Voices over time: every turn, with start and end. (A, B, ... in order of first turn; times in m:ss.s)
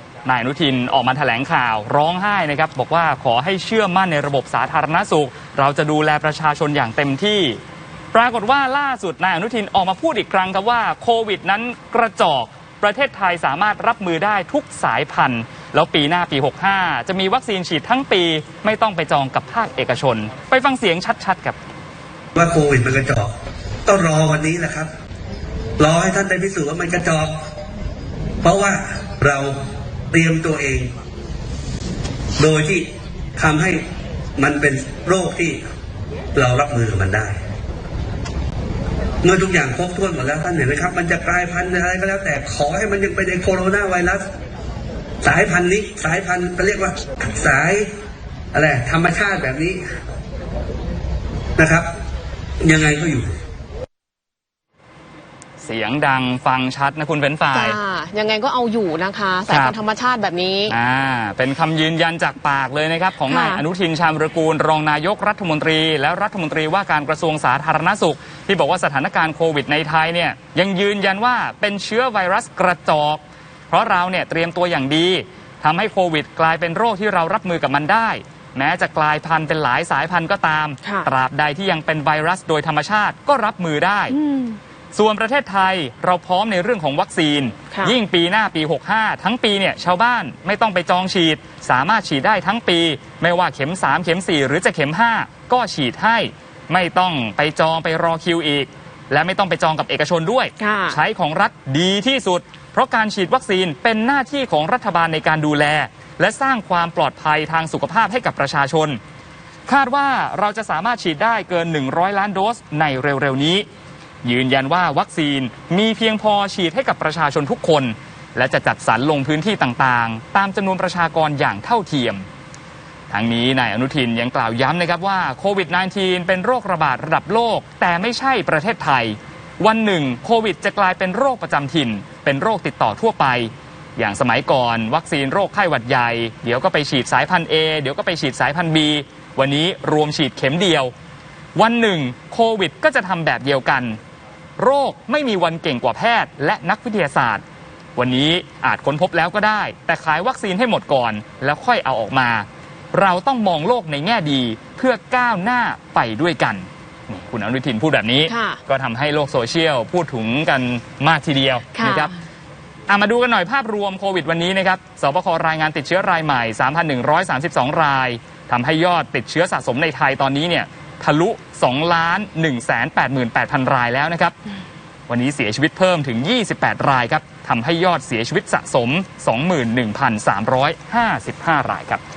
0:00.3-0:07.6 A
0:08.1-0:21.6 A
0:22.4-0:23.3 B
0:23.9-0:24.9 B
0:25.8-0:27.3 B
0:28.4-0:29.6 B
0:30.1-0:30.9 B
0:32.4-0:33.8 B
0:34.4-0:35.6 B
0:36.4-0:37.4 B
0:39.2-0:44.2 B
0:45.2-0:47.9 B
0:48.5-0:49.8 B
0:51.6-0:51.9 B
0:52.6-0:53.3 B
0:55.6-0:57.8 A
0:57.5-1:00.7 C
0:59.5-0:59.8 A
1:00.7-1:24.2 A
1:03.3-1:03.6 C
1:20.8-1:21.1 C
1:24.1-1:24.6 C
1:24.9-1:49.0 A
1:40.6-1:41.0 C
1:49.7-1:53.7 A
1:54.2-2:02.3 A
2:03.1-2:20.9 A
2:21.6-2:24.0 A
2:24.6-2:27.4 A
2:28.0-2:42.1 A
2:38.3-2:38.6 C
2:41.8-2:42.1 C
2:42.9-2:54.4 A
2:55.1-3:02.0 A